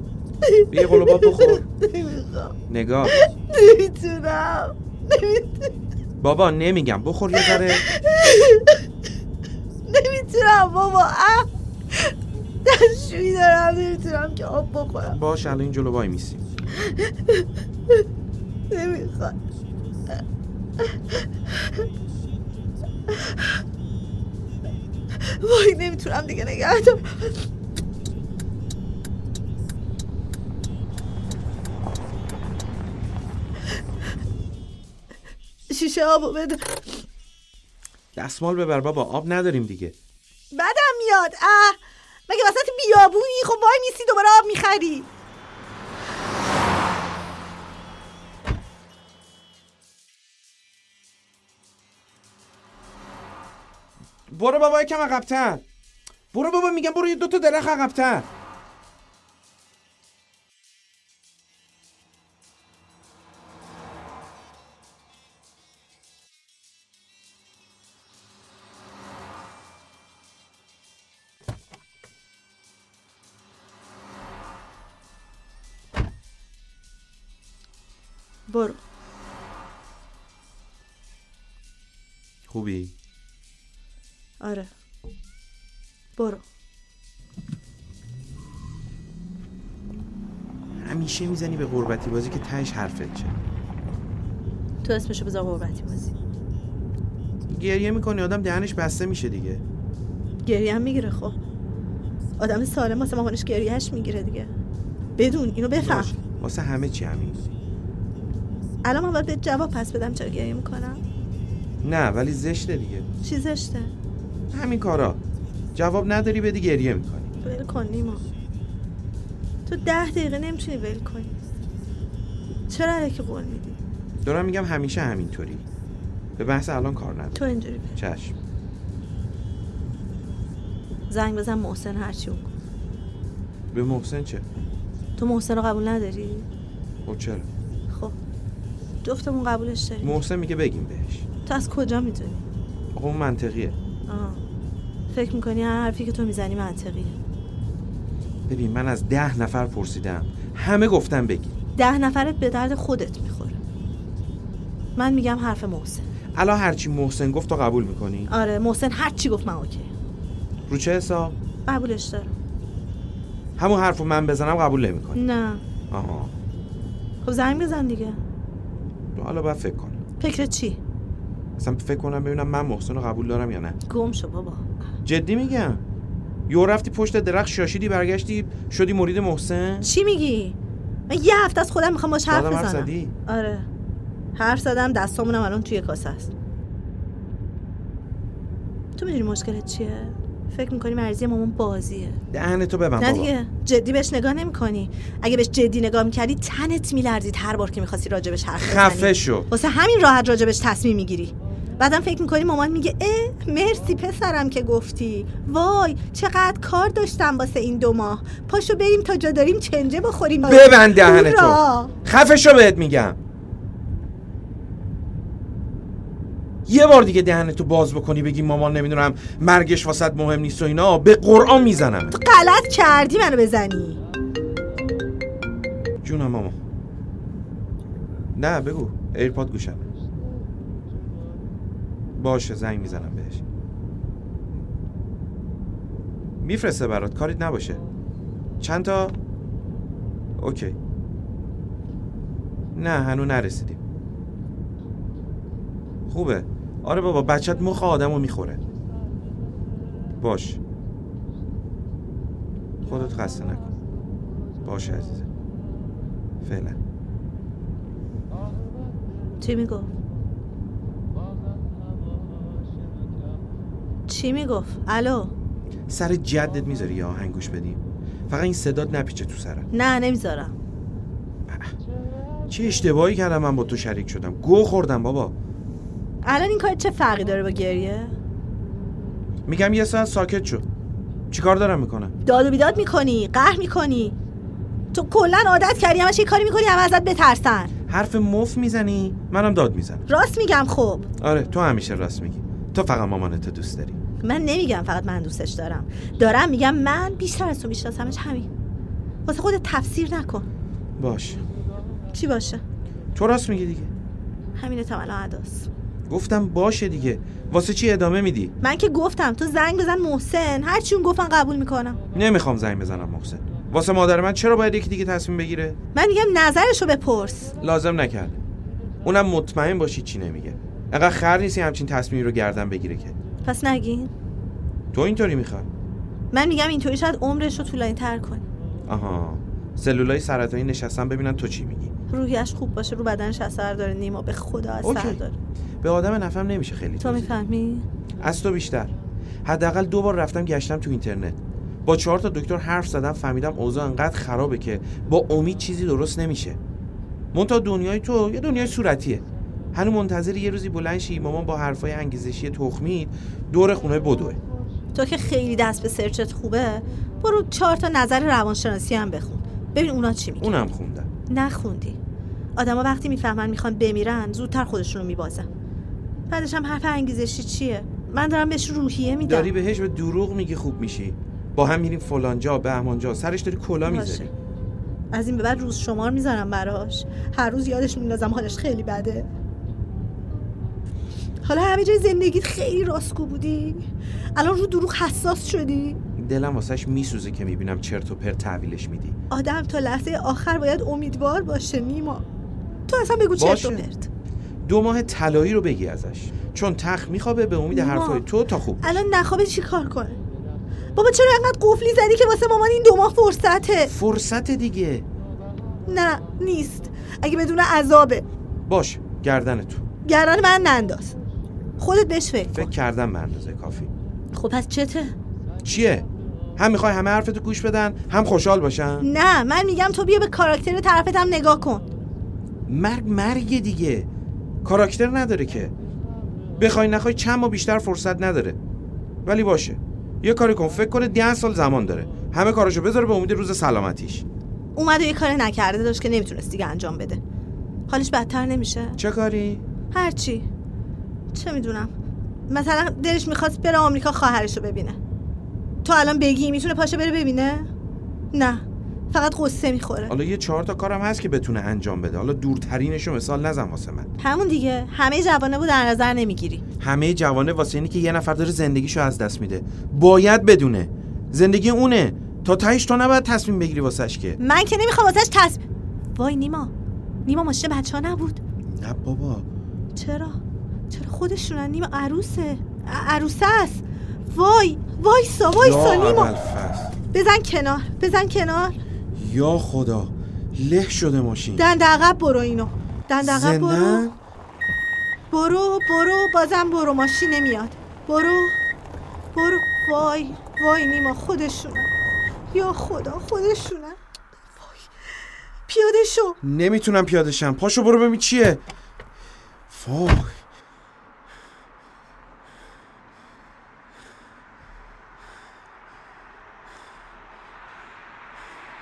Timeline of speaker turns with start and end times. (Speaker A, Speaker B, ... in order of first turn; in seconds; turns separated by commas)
Speaker A: 0.4-2.5, Speaker B: 0.7-1.6, Speaker B: 2.7-3.2, Speaker A: 3.1-5.7, Speaker B: 6.2-7.8, Speaker A: 7.4-8.8, Speaker A: 9.9-15.2, Speaker B: 15.1-16.4, Speaker A: 16.7-17.5, Speaker A: 18.7-19.4, Speaker A: 23.1-23.4, Speaker A: 25.2-27.4, Speaker A: 35.7-37.0, Speaker B: 38.1-40.0, Speaker A: 40.5-41.8, Speaker A: 42.3-45.1, Speaker B: 54.3-55.6, Speaker B: 56.3-58.3, Speaker A: 78.5-78.8, Speaker B: 82.5-82.9, Speaker A: 84.4-84.7, Speaker A: 86.2-86.4, Speaker B: 90.8-93.3, Speaker A: 94.8-96.1, Speaker B: 97.5-99.6, Speaker A: 100.4-101.4, Speaker A: 102.4-104.5, Speaker A: 105.2-106.1, Speaker B: 105.8-107.5, Speaker A: 108.8-111.0, Speaker B: 111.8-113.1, Speaker A: 113.2-113.9, Speaker B: 114.5-115.2, Speaker B: 115.7-117.3, Speaker A: 117.4-118.2, Speaker A: 119.7-121.3, Speaker A: 122.7-123.8, Speaker B: 124.2-125.6, Speaker B: 126.4-127.4, Speaker A: 127.3-128.0, Speaker B: 128.0-128.3, Speaker A: 131.1-132.5, Speaker B: 133.7-134.4, Speaker A: 135.2-136.5, Speaker B: 137.0-137.5, Speaker A: 137.9-138.2, Speaker A: 139.0-140.2, Speaker B: 140.0-141.2, Speaker A: 141.4-142.4, Speaker B: 142.9-143.8, Speaker A: 144.1-144.4, Speaker A: 145.1-147.2, Speaker B: 148.5-151.6, Speaker A: 151.8-153.6, Speaker A: 155.0-156.0, Speaker B: 156.3-158.3, Speaker A: 158.3-159.9, Speaker B: 160.7-161.3, Speaker A: 161.7-162.3, Speaker B: 163.6-165.2, Speaker A: 165.1-165.6, Speaker B: 165.9-166.3, Speaker A: 167.2-168.2, Speaker B: 169.1-170.0, Speaker A: 170.2-170.8, Speaker B: 171.6-173.8, Speaker A: 173.9-174.7, Speaker B: 175.0-175.8, Speaker B: 176.5-179.9, Speaker A: 179.8-180.6, Speaker A: 181.1-183.7, Speaker B: 182.3-183.1, Speaker A: 184.3-186.3, Speaker A: 188.9-192.2, Speaker B: 192.3-193.3, Speaker A: 193.0-211.9, Speaker B: 198.6-199.5, Speaker B: 210.4-213.2, Speaker B: 216.7-222.2, Speaker A: 222.1-224.0, Speaker B: 226.0-226.6, Speaker B: 228.3-229.8, Speaker B: 232.1-233.4, Speaker B: 236.4-237.8, Speaker B: 238.6-239.2, Speaker B: 240.4-240.8, Speaker B: 242.7-243.8, Speaker B: 246.1-248.6, Speaker B: 250.2-250.6, Speaker B: 252.8-253.7, Speaker B: 254.6-255.3, Speaker B: 256.4-256.8, Speaker A: 259.4-259.9, Speaker A: 264.1-265.3, Speaker B: 265.9-269.7, Speaker A: 269.7-270.6, Speaker B: 271.5-271.7, Speaker B: 272.5-275.3, Speaker A: 276.2-278.1, Speaker B: 279.4-280.6, Speaker B: 281.3-282.1, Speaker A: 282.2-284.1, Speaker A: 284.9-287.7, Speaker B: 287.9-290.1, Speaker A: 290.1-291.1, Speaker B: 291.2-294.0, Speaker A: 294.2-298.5, Speaker A: 299.2-300.5, Speaker B: 301.0-301.4, Speaker A: 302.1-302.6, Speaker B: 303.1-303.9, Speaker A: 304.5-305.7, Speaker B: 306.1-308.5, Speaker A: 308.6-312.0, Speaker B: 312.1-315.8, Speaker A: 315.9-317.5, Speaker B: 317.6-318.4, Speaker B: 319.0-323.2, Speaker A: 323.4-324.1, Speaker B: 324.9-325.7, Speaker A: 326.3-328.4, Speaker B: 328.9-331.9, Speaker A: 332.1-335.4, Speaker B: 334.8-335.2, Speaker B: 335.8-337.4, Speaker A: 337.0-337.9, Speaker B: 338.2-338.9, Speaker B: 339.4-346.6, Speaker B: 347.3-354.4, Speaker A: 354.9-360.6, Speaker B: 360.4-361.1, Speaker A: 361.3-362.0, Speaker A: 362.6-365.5, Speaker A: 366.3-369.5, Speaker B: 369.2-374.3, Speaker A: 373.8-374.3, Speaker A: 375.1-379.3, Speaker A: 381.4-386.0, Speaker B: 386.2-389.2, Speaker A: 389.3-392.2, Speaker A: 392.9-394.1, Speaker B: 393.4-393.9, Speaker B: 394.6-399.0, Speaker A: 397.7-398.2, Speaker A: 398.8-400.2, Speaker A: 400.9-403.9, Speaker B: 403.9-405.1, Speaker A: 405.9-408.2, Speaker B: 408.7-409.8, Speaker A: 410.0-411.2, Speaker A: 411.8-412.7, Speaker B: 412.5-413.9, Speaker A: 414.3-415.1, Speaker B: 415.6-419.1, Speaker A: 419.0-421.8, Speaker B: 422.7-424.1, Speaker B: 424.6-425.7, Speaker B: 426.6-428.6, Speaker B: 429.2-434.2, Speaker A: 434.8-437.2, Speaker A: 437.9-439.0, Speaker B: 439.0-439.6, Speaker A: 439.9-440.5, Speaker A: 441.3-441.9, Speaker A: 442.5-445.0, Speaker A: 445.8-447.7, Speaker A: 448.3-450.1, Speaker B: 450.1-454.1, Speaker A: 454.2-456.6, Speaker B: 456.8-464.4, Speaker A: 464.4-465.6, Speaker A: 466.1-466.7, Speaker A: 467.2-468.4, Speaker B: 468.7-469.5, Speaker A: 469.9-476.3, Speaker B: 475.5-476.9, Speaker A: 477.1-478.8, Speaker B: 479.1-481.6, Speaker A: 481.6-484.1, Speaker B: 483.2-484.1, Speaker A: 485.3-488.6, Speaker A: 489.3-491.9, Speaker A: 492.5-494.0, Speaker A: 494.6-494.9, Speaker A: 495.6-496.4, Speaker B: 496.4-498.6, Speaker B: 499.7-500.4